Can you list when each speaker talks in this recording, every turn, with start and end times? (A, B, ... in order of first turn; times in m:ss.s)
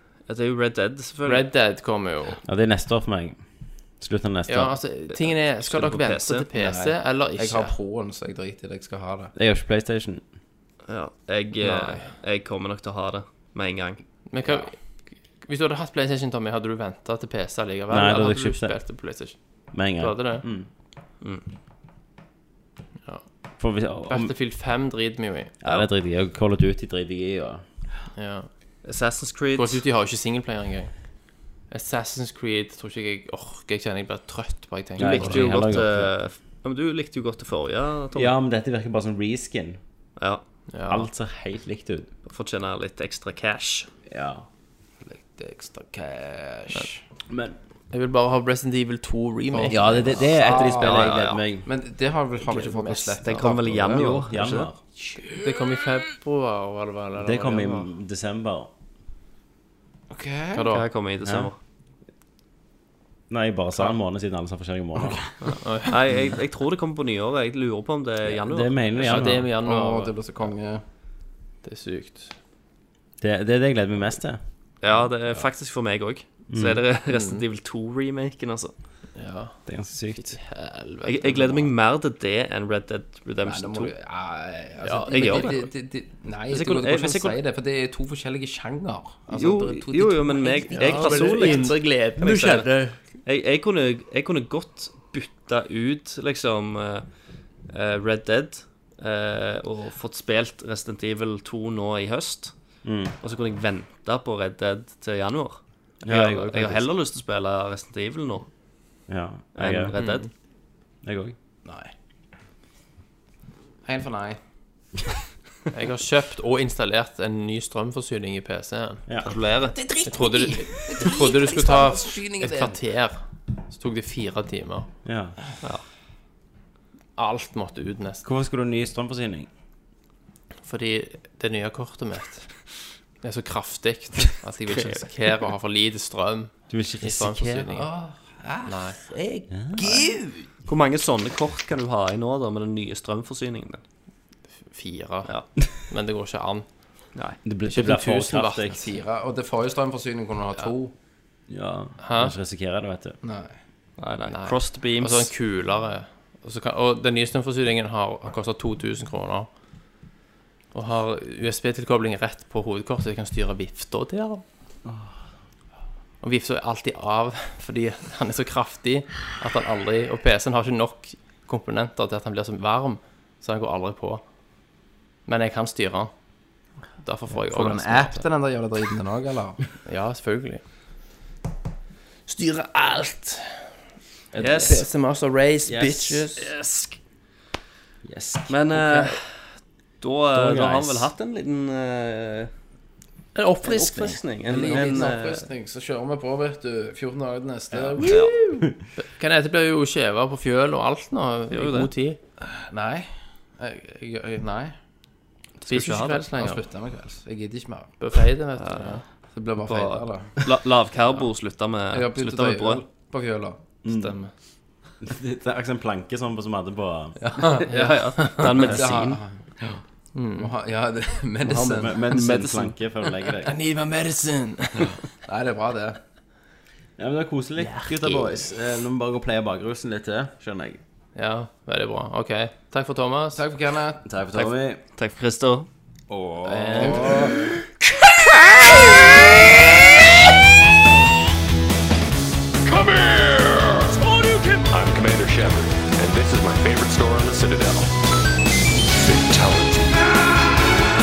0:00.3-0:01.5 A
0:01.2-0:02.4 B
0:02.4-0:03.4 C
0:04.0-0:04.8 C
0:04.5-0:07.8 B
0:05.1-0:06.4 A
0:06.5-0:09.3 D
0:09.4-0:10.2 C
0:10.9-0:14.0 A
0:11.6-0:12.1 B
0:14.3-0:14.8 B
0:15.4-0:20.4 B
0:17.9-0:18.8 C
0:19.7-0:20.7 C
0:23.6-0:24.3 C
0:24.1-0:25.8 B
0:25.6-0:27.6 C
0:28.1-0:28.5 B
0:28.8-0:29.8 A
0:29.6-0:30.9 B
0:31.7-0:35.7 B
0:35.0-0:36.1 C
0:35.0-0:38.3 A
0:38.1-0:39.8 C
0:40.2-0:40.4 A
0:40.7-0:41.1 B
0:40.9-0:42.1 C
0:42.2-0:43.9 A
0:44.1-0:44.4 C
0:45.0-0:47.0 D
0:47.3-0:47.6 C
0:47.9-0:50.3 B
0:49.5-0:54.2 D
0:49.7-0:51.7 C
0:50.5-0:51.4 A
0:52.4-0:53.3 B
0:53.2-0:54.7 A
0:53.4-0:54.8 C
0:54.8-0:55.4 D
0:55.3-0:57.9 B
0:57.2-0:58.7 C
1:00.1-1:00.7 D
1:00.5-1:00.8 B
1:00.7-1:01.6 A
1:01.2-1:01.5 C
1:03.3-1:05.3 C
1:05.4-1:09.2 A
1:05.6-1:05.9 B
1:08.3-1:09.5 C
1:09.0-1:10.5 B
1:09.6-1:10.8 D
1:11.6-1:12.4 B
1:13.2-1:14.4 C
1:14.8-1:18.7 A
1:16.5-1:16.8 C
1:17.1-1:17.4 B
1:19.2-1:21.7 B
1:19.7-1:20.4 C
1:21.0-1:23.9 A
1:23.4-1:31.7 D
1:24.8-1:25.7 B
1:25.1-1:25.6 A
1:26.5-1:27.4 A
1:29.3-1:37.0 A
1:30.7-1:33.0 B
1:37.7-1:42.5 A
1:42.8-1:43.1 C
1:43.2-1:48.5 A
1:46.0-1:46.8 C
1:49.1-1:50.0 C
1:49.6-1:50.3 A
1:50.0-1:50.3 B
1:51.0-1:51.3 C
1:51.6-1:51.9 D
1:53.8-1:54.4 D
1:55.7-1:59.1 B
1:59.2-1:59.8 A
1:59.6-2:02.8 D
2:00.0-2:03.2 B
2:03.7-2:04.9 B
2:05.0-2:05.4 C
2:07.2-2:08.2 B
2:08.2-2:09.5 C
2:10.6-2:12.5 B
2:13.2-2:17.9 B
2:16.7-2:17.7 C
2:17.7-2:20.5 D
2:18.6-2:19.0 B
2:19.5-2:19.9 C
2:20.6-2:23.8 A
2:24.7-2:26.6 B
2:27.4-2:28.9 C
2:27.6-2:28.9 B
2:28.7-2:30.9 D
2:31.5-2:33.2 C
2:32.0-2:32.3 B
2:33.2-2:33.5 D
2:34.0-2:35.3 A
2:34.2-2:39.5 B
2:40.7-2:44.4 B
2:46.2-2:54.2 B
2:55.2-2:56.1 B
2:57.0-2:58.2 B
2:57.5-2:59.6 D
2:59.8-3:00.6 B
3:02.3-3:03.7 B
3:04.3-3:04.8 C
3:04.4-3:04.8 A
3:04.5-3:06.5 B
3:05.6-3:06.2 C
3:06.4-3:07.0 A
3:08.0-3:09.1 C
3:08.5-3:12.5 A
3:10.3-3:11.1 C
3:13.3-3:15.2 B
3:13.6-3:15.5 A
3:14.5-3:18.6 D
3:17.7-3:18.7 C
3:18.0-3:18.4 A
3:19.0-3:22.2 B
3:21.5-3:21.9 A
3:22.4-3:24.8 D
3:25.6-3:26.2 A
3:25.7-3:26.6 B
3:26.3-3:27.9 D
3:28.0-3:29.0 B
3:28.6-3:29.0 A
3:29.3-3:30.5 D
3:29.6-3:32.8 A
3:31.9-3:34.1 D
3:33.8-3:34.1 C
3:33.9-3:34.2 B
3:35.0-3:37.5 C
3:37.4-3:38.6 B
3:37.4-3:39.2 A
3:38.4-3:39.5 D
3:40.1-3:40.5 B
3:40.3-3:42.1 D
3:41.4-3:42.7 A
3:41.5-3:43.6 C
3:43.1-3:45.0 B
3:45.2-3:46.0 D
3:47.0-3:50.8 C
3:47.6-3:48.5 B
3:51.1-3:53.4 B
3:53.3-3:54.1 D
3:54.0-3:54.8 C
3:54.3-3:55.7 A
3:56.1-3:57.4 C
3:56.4-3:57.3 B
3:56.6-3:57.4 D
3:58.2-4:00.0 E
4:02.6-4:07.9 E
4:08.7-4:10.8 E